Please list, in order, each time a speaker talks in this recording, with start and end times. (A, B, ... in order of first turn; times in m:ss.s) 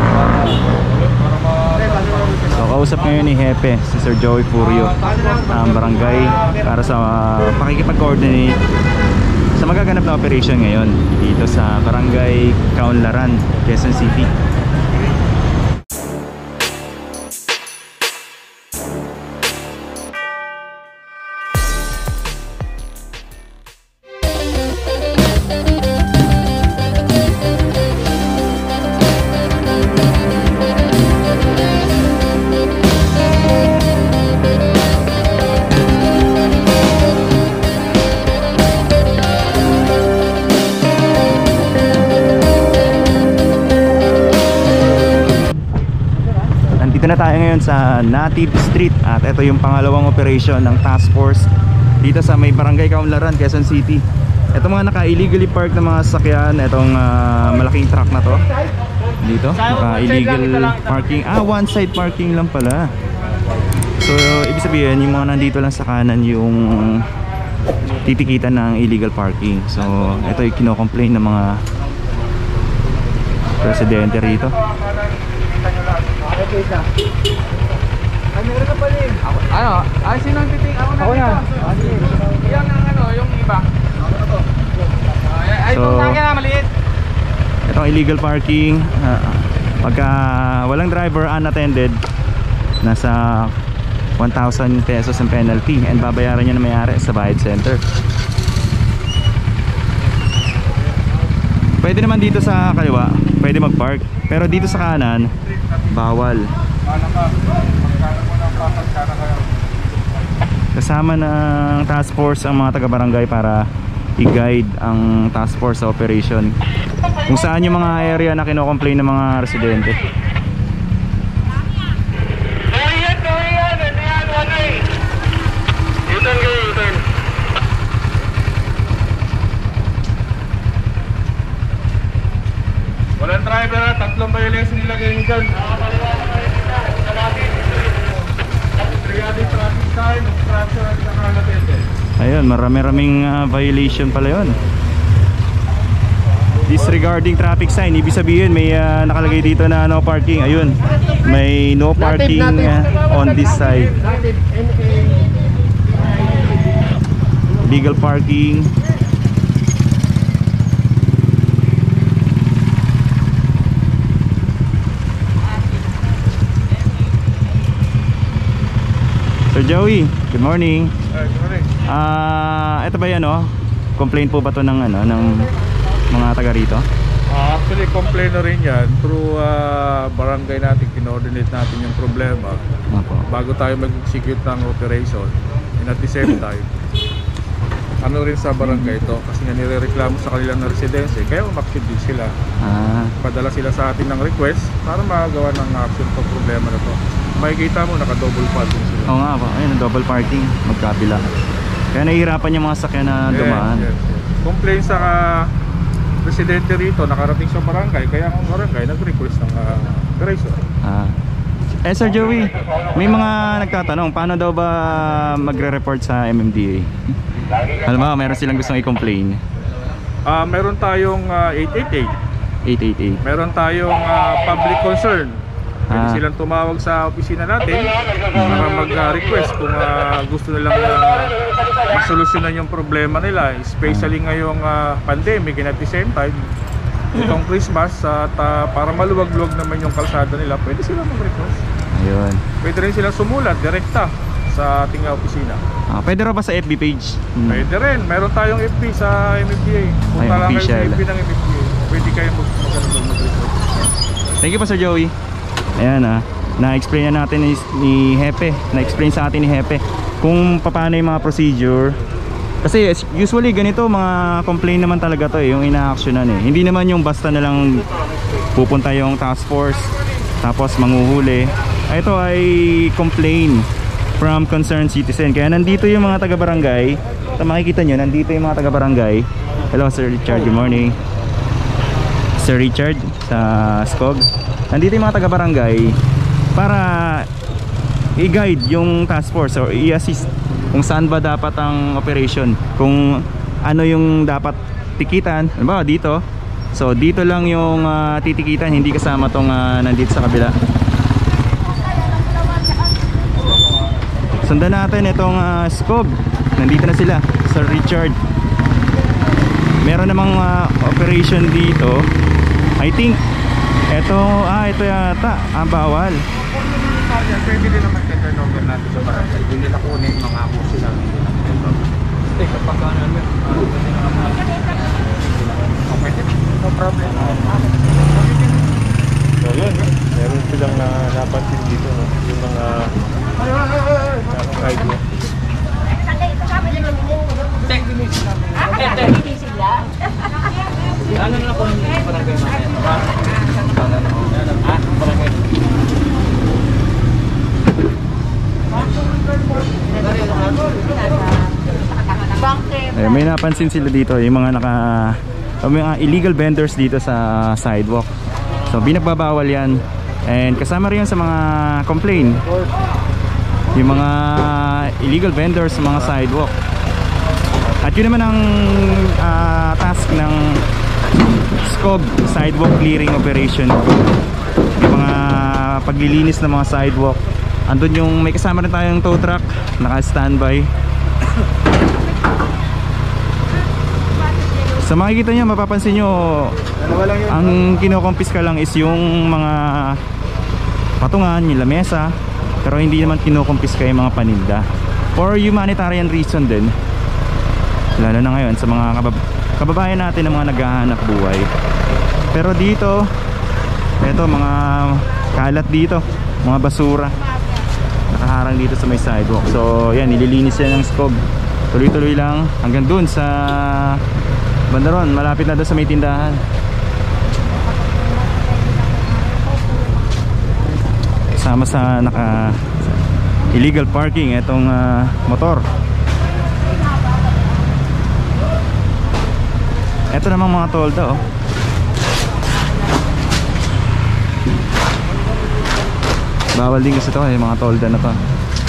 0:00.7-0:02.5 A
0:02.5-0:08.6 B
0:04.6-0:06.4 A
0:09.6-0:14.3 B
0:46.8-0:51.5 B
0:52.0-0:58.4 B
0:59.2-1:02.9 B
1:04.0-1:07.1 B
1:08.0-1:11.5 B
1:13.6-1:14.6 B
1:19.3-1:21.5 A
1:22.4-1:23.6 A
1:25.6-1:26.3 B
1:27.7-1:32.0 B
1:32.8-1:33.5 B
1:34.2-1:37.8 B
1:41.8-1:45.3 B
1:45.6-1:45.9 A
1:45.9-1:46.5 B
1:46.8-1:49.7 A
1:50.8-1:53.6 B
1:54.2-1:56.5 B
1:57.3-2:00.0 B
2:13.2-2:15.8 A
2:18.8-2:21.8 A
2:22.2-2:24.6 B
2:26.7-2:34.0 B
2:37.6-2:38.7 B
2:49.5-2:50.9 B
2:51.1-2:51.7 A
2:51.9-2:55.5 B
2:56.1-2:56.8 B
2:57.3-3:02.6 A
3:02.9-3:03.2 B
3:03.3-3:06.7 A
3:08.0-3:12.3 A
3:12.6-3:13.2 B
3:13.2-3:19.1 A
3:19.1-3:21.3 B
3:21.9-3:23.9 B
3:23.3-3:25.5 A
3:26.2-3:30.6 A
3:30.8-3:31.2 B
3:31.8-3:36.9 B
3:37.8-3:39.4 B
3:40.3-3:42.1 A
3:42.7-3:43.2 B
3:43.2-3:45.4 A
3:45.9-3:46.2 B
3:45.9-3:51.4 A
3:48.3-3:48.7 B
3:51.9-3:56.4 A
3:53.8-3:54.1 B
3:57.1-4:01.6 A
4:02.0-4:02.4 B
4:02.6-4:05.6 A
4:05.9-4:07.7 B
4:07.5-4:13.6 A
4:10.2-4:11.0 B
4:14.4-4:15.1 B
4:15.8-4:22.0 B
4:22.6-4:27.8 B
4:28.6-4:29.9 B
4:30.4-4:33.6 B
4:34.2-4:41.0 B
4:42.4-4:46.0 B
4:46.6-4:47.3 B
4:48.2-4:56.2 B
4:56.7-5:00.5 B
5:04.4-5:08.2 B
5:09.8-5:12.0 B
5:12.8-5:13.2 B
5:13.9-5:16.2 B
5:16.8-5:21.8 A
5:22.4-5:23.3 C
5:25.9-5:27.2 A
5:29.4-5:33.0 A
5:34.3-5:35.0 A
5:41.4-5:42.6 C
5:52.9-5:58.1 B
5:58.7-6:02.4 B
6:03.8-6:06.5 B
6:07.8-6:10.6 B
6:11.7-6:14.0 B
6:14.8-6:20.7 B
6:24.8-6:30.0 B
6:31.0-6:32.1 B
6:32.6-6:34.6 B
6:35.2-6:36.7 B
6:38.0-6:41.5 B
6:42.3-6:43.0 B
6:44.0-6:47.2 B
6:48.1-6:51.2 B
6:51.7-6:54.0 B
6:54.7-6:56.4 B
7:01.4-7:02.9 B
7:03.5-7:05.6 B
7:10.1-7:11.2 B
7:16.6-7:18.2 B